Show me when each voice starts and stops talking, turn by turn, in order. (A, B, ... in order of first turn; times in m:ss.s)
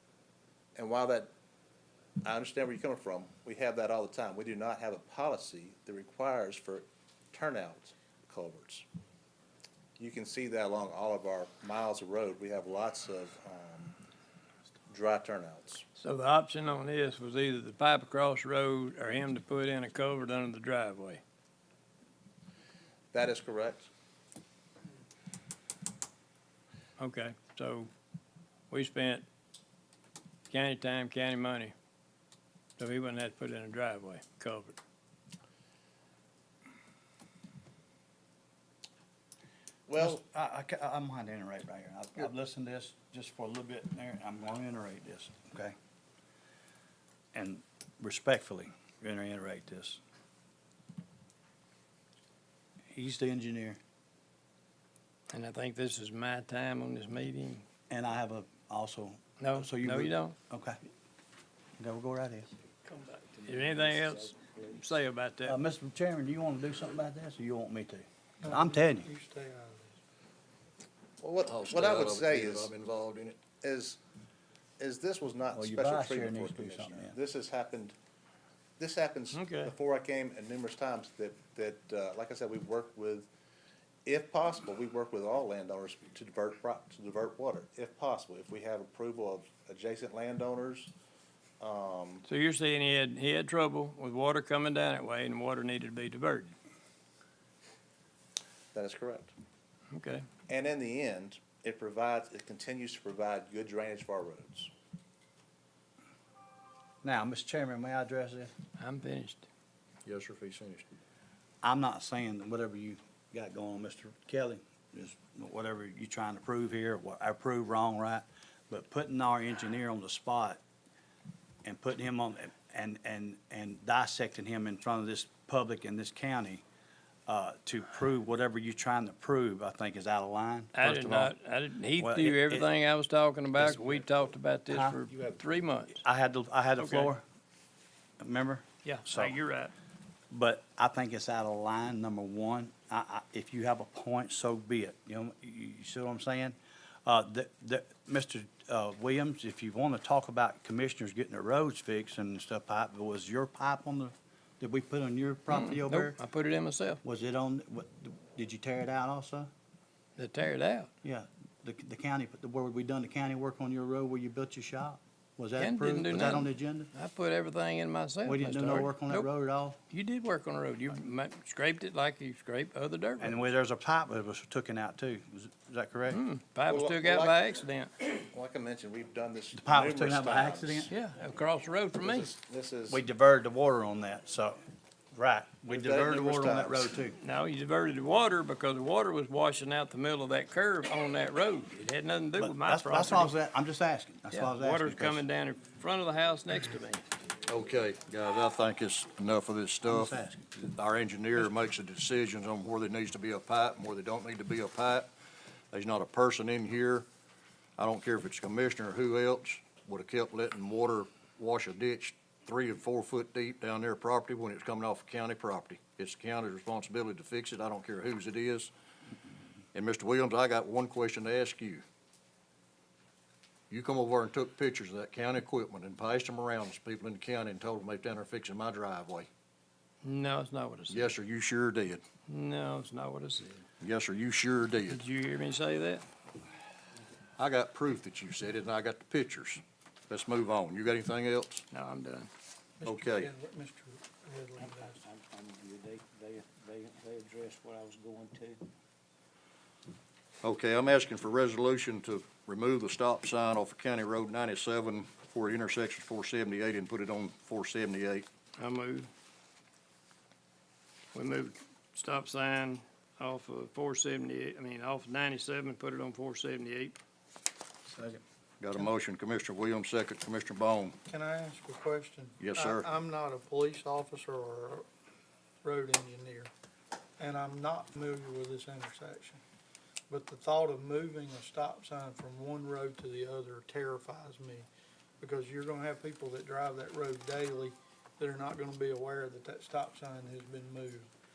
0:00.8-0:01.3 A
0:02.2-0:08.9 A
0:10.0-0:14.0 A
0:14.9-0:15.8 A
0:16.0-0:21.2 B
0:23.1-0:23.9 A
0:27.0-0:27.9 B
0:28.7-0:29.2 B
0:30.5-0:31.7 B
0:32.8-0:34.8 B
0:39.9-0:40.2 A
0:40.0-0:45.8 C
0:47.3-0:50.0 C
0:52.9-0:53.8 C
0:55.3-0:57.6 B
0:57.9-1:00.8 C
0:59.4-1:00.4 B
1:01.8-1:02.5 C
1:02.9-1:05.6 B
1:03.4-1:04.7 D
1:05.5-1:09.1 C
1:08.4-1:10.0 E
1:11.2-1:12.8 A
1:11.5-1:13.4 F
1:13.5-1:14.0 A
1:14.8-1:18.0 A
1:15.5-1:17.2 C
1:18.8-1:23.3 A
1:19.3-1:19.7 B
1:24.1-1:30.9 A
1:31.6-1:32.2 A
1:32.3-1:36.5 B
1:38.7-1:39.3 A
1:39.9-1:40.3 B
1:40.5-1:44.7 A
1:47.0-1:48.5 C
1:48.8-1:49.4 B
1:50.0-1:50.8 F
1:51.6-2:00.6 C
2:01.6-2:06.6 C
2:07.3-2:11.3 C
2:10.8-2:16.0 B
2:12.0-2:12.7 C
2:14.7-2:15.1 C
2:16.0-2:17.2 C
2:16.8-2:17.1 B
2:18.2-2:19.4 C
2:18.8-2:19.7 B
2:20.3-2:36.2 C
2:35.5-2:37.0 B
2:37.0-2:39.5 C
2:40.2-2:40.9 B
2:41.0-2:46.9 C
2:45.6-2:49.3 B
2:48.2-2:49.8 C
2:49.9-2:53.4 B
2:53.2-2:56.2 C
2:56.1-2:57.9 B
2:56.7-2:57.4 A
2:58.1-3:00.9 A
2:59.6-3:00.9 C
3:00.9-3:02.3 B
3:02.0-3:03.0 A
3:02.9-3:04.6 C
3:05.1-3:07.2 C
3:05.7-3:06.9 A
3:07.2-3:13.3 B
3:12.4-3:15.2 C
3:14.3-3:17.0 B
3:17.5-3:25.1 F
3:19.8-3:20.5 C
3:25.7-3:27.1 F
3:27.8-3:38.7 F
3:39.7-3:41.8 F
3:43.7-3:49.3 F
3:50.0-3:51.1 B
3:50.9-3:52.0 F
3:52.3-3:53.6 B
3:53.8-3:55.0 F
3:54.9-3:56.0 B
3:57.4-4:01.6 F
4:01.7-4:02.3 B
4:02.8-4:05.0 E
4:02.8-4:03.3 F
4:05.1-4:08.6 D
4:10.4-4:18.3 F
4:18.6-4:19.1 B
4:21.1-4:27.0 B
4:28.6-4:31.0 F
4:31.1-4:34.9 E
4:32.4-4:32.9 F
4:35.6-4:36.5 E
4:37.2-4:39.4 E
4:40.1-4:44.7 E
4:45.2-4:51.1 E